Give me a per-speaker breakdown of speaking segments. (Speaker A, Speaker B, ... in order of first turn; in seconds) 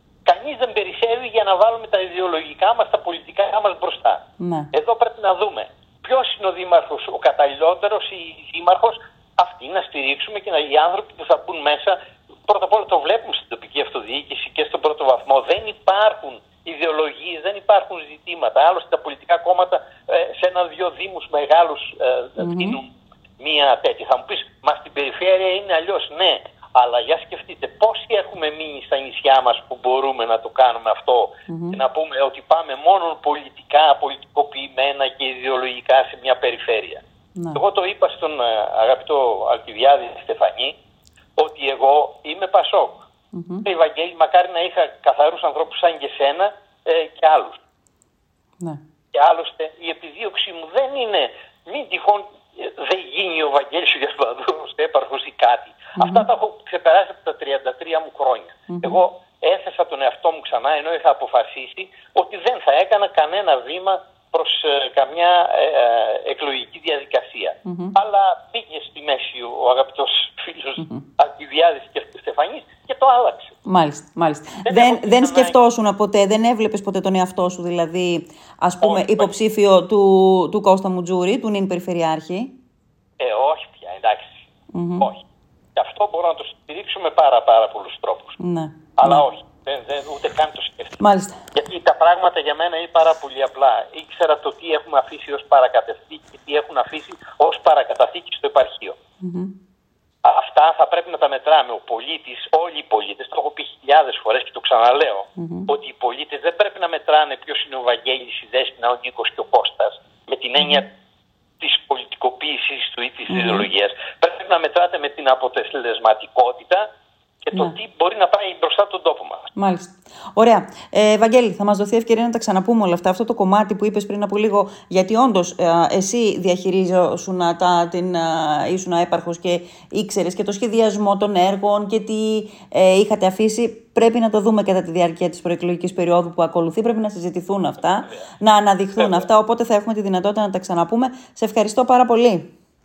Speaker A: 0.3-37.0, 37.5-40.8, 41.4-43.1, 43.6-47.6, 49.1-73.6, 74.7-75.6, 78.8-79.3, 83.2-84.4, 85.8-88.4, 89.0-91.0, 91.5-99.0, 100.2-110.9, 111.6-116.9, 117.5-119.5, 137.9-138.2, 139.0-139.3
Speaker B: 4.4-4.7, 22.4-22.8, 31.5-31.8, 37.4-37.6, 43.3-43.7, 56.0-56.3, 58.7-59.0, 67.7-67.9, 70.8-71.0, 73.7-82.5, 84.7-85.1, 88.4-89.2, 91.0-91.4, 99.2-99.5, 105.4-105.7, 113.3-113.7, 119.6-142.5